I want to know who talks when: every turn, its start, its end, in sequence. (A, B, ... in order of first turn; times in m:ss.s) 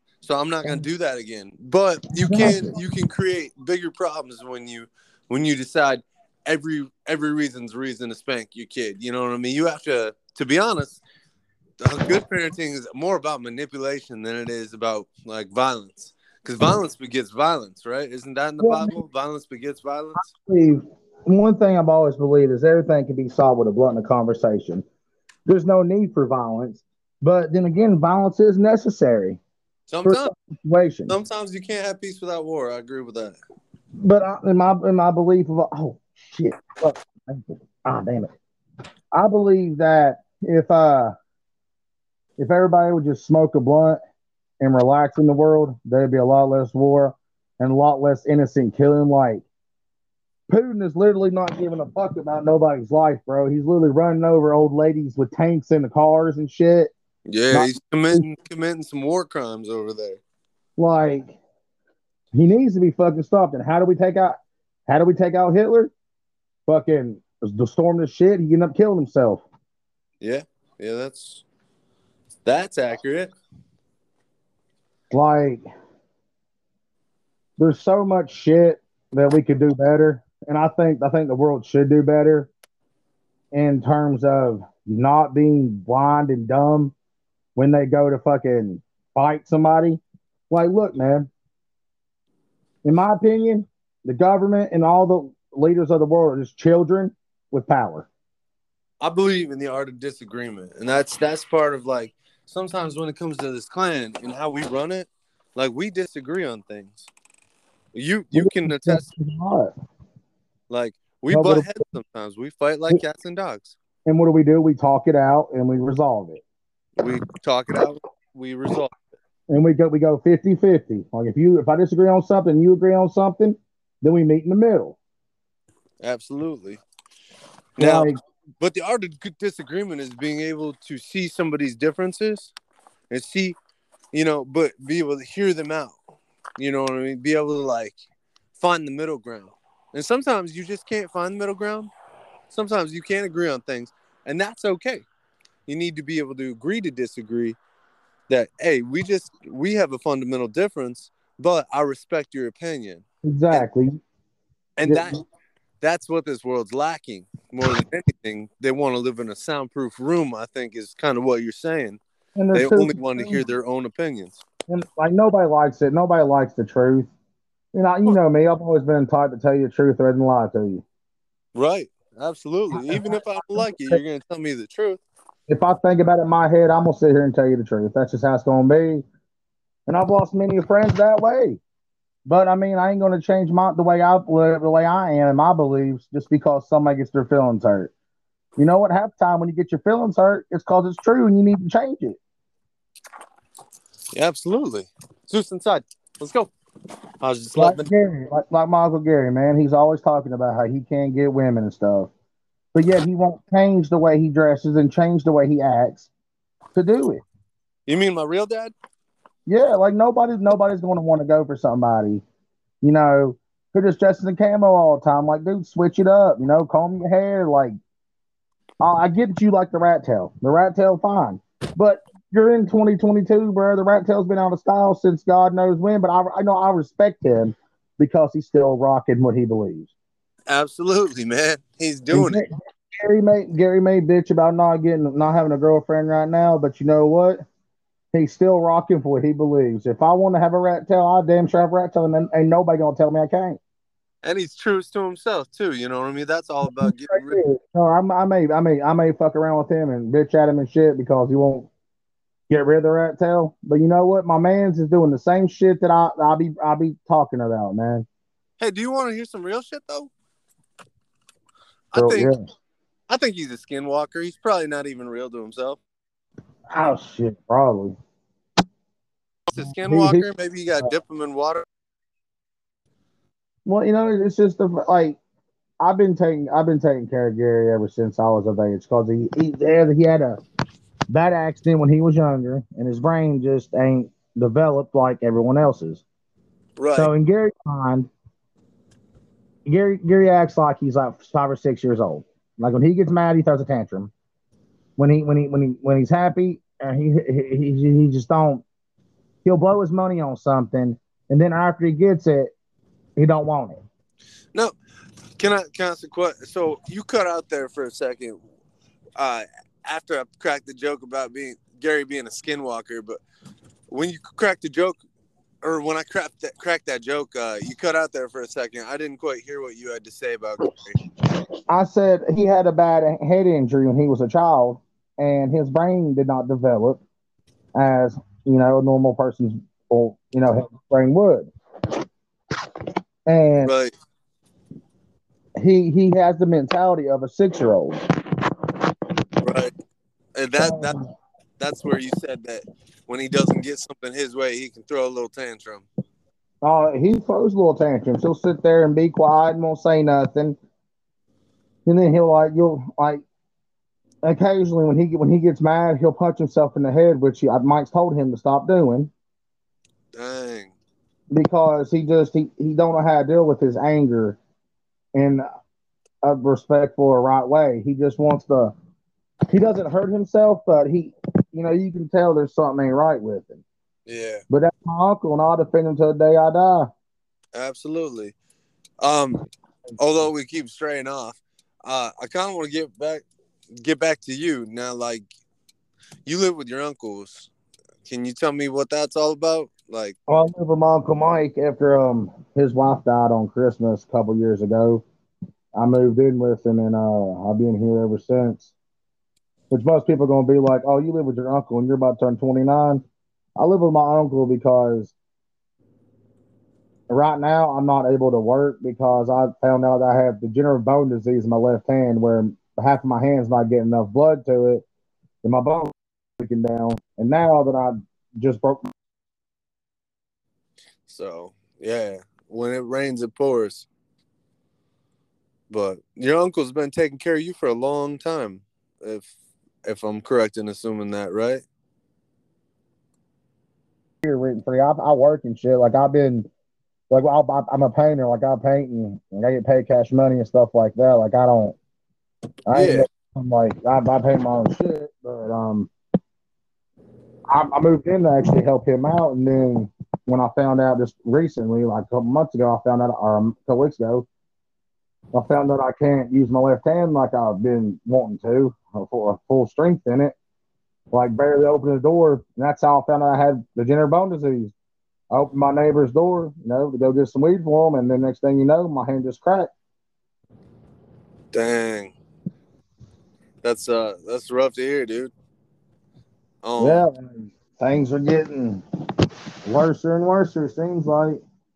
0:00.2-0:11.0 A
0:02.1-0:02.8 B
0:11.8-0:20.3 A
0:18.6-0:18.9 B
0:20.2-0:24.8 B
0:25.5-0:29.4 B
0:29.9-0:30.3 A
0:30.0-0:31.1 B
0:31.1-0:33.4 A
0:34.0-0:38.3 B
0:39.1-0:41.1 B
0:42.4-0:44.0 B
0:44.6-0:49.4 B
0:50.5-0:56.9 B
0:57.3-1:00.2 A
0:57.5-0:58.2 B
1:00.8-1:01.4 B
1:02.3-1:04.4 B
1:04.9-1:05.9 B
1:06.7-1:09.4 B
1:10.2-1:11.4 A
1:12.4-1:13.3 A
1:15.1-1:15.6 B
1:17.6-1:22.5 B
1:23.5-1:26.9 B
1:27.6-1:31.3 B
1:32.8-1:38.1 B
1:39.0-1:47.1 A
1:47.9-1:49.1 A
1:48.3-1:49.7 B
1:50.7-1:53.7 A
1:51.3-1:51.7 B
1:54.0-1:56.4 B
1:57.0-1:58.9 A
1:59.5-2:05.0 B
2:06.0-2:06.8 A
2:07.8-2:12.5 A
2:07.8-2:08.2 B
2:13.1-2:13.6 A
2:14.1-2:16.0 A
2:16.6-2:18.0 A
2:18.6-2:21.9 A
2:22.5-2:25.0 A
2:25.7-2:27.6 A
2:28.3-2:33.6 A
2:33.2-2:34.0 B
2:34.8-2:35.2 A
2:35.8-2:42.0 A
2:42.4-2:43.4 B
2:42.5-2:44.4 A
2:44.7-2:47.1 B
2:47.7-2:50.8 B
2:51.6-2:55.0 A
2:52.7-2:54.0 B
2:55.5-2:59.0 B
2:59.9-3:01.6 B
3:02.2-3:07.9 B
3:08.6-3:12.2 B
3:14.1-3:16.5 A
3:17.2-3:17.9 A
3:17.5-3:22.1 B
3:22.7-3:26.1 B
3:26.7-3:27.2 B
3:27.9-3:28.7 A
3:29.4-3:32.2 B
3:32.8-3:37.8 B
3:38.8-3:49.9 B
3:50.5-3:52.4 A
3:52.1-3:57.4 B
3:58.1-4:03.6 B
4:04.2-4:07.4 A
4:06.6-4:11.7 B
4:12.5-4:18.0 B
4:18.6-4:20.1 A
4:21.9-4:22.3 A
4:21.9-4:22.4 B
4:23.1-4:25.8 A
4:26.7-4:28.0 B
4:29.5-4:31.6 A
4:29.6-4:30.2 B
4:33.6-4:35.2 B
4:35.8-4:40.4 B
4:41.1-4:46.0 B
4:46.8-4:47.1 A
4:47.0-4:48.1 B
4:49.6-4:54.1 B
4:55.0-4:58.6 B
4:59.4-5:02.5 B
5:03.2-5:03.8 B
5:05.4-5:08.4 A
5:09.2-5:13.2 A
5:13.9-5:15.0 A
5:15.6-5:21.0 A
5:21.7-5:27.0 B
5:27.7-5:31.5 B
5:33.2-5:33.7 B
5:33.6-5:33.9 A
5:35.6-5:38.0 B
5:39.4-5:39.7 A
5:40.4-5:40.9 A
5:40.6-5:41.0 B
5:41.6-5:45.9 A
5:46.6-5:50.6 B
5:51.8-5:53.2 B
5:54.2-5:59.1 B
6:00.1-6:00.7 A
6:01.3-6:04.4 B
6:05.1-6:05.4 B
6:06.2-6:08.7 B
6:09.5-6:13.6 B
6:14.1-6:14.4 A
6:14.5-6:16.9 B
6:17.5-6:18.3 A
6:19.0-6:19.4 A
6:20.0-6:23.2 A
6:23.8-6:25.3 A
6:26.2-6:27.5 A
6:28.0-6:30.2 A
6:30.3-6:35.0 B
6:35.7-6:38.7 B
6:39.7-6:43.0 B
6:43.6-6:45.1 B
6:47.1-6:54.8 B
6:55.4-6:58.9 B
7:01.1-7:03.9 A
7:05.7-7:09.3 A
7:09.8-7:11.6 A
7:14.2-7:16.5 B
7:17.1-7:21.8 B
7:22.7-7:25.9 B
7:22.7-7:23.1 A
7:27.5-7:34.3 B
7:35.3-7:40.3 B
7:41.1-7:44.7 B
7:45.3-7:49.7 B
7:51.5-7:52.1 A
7:53.6-7:55.3 A
7:56.6-7:57.0 A
7:56.8-7:58.8 B
7:59.6-8:01.4 B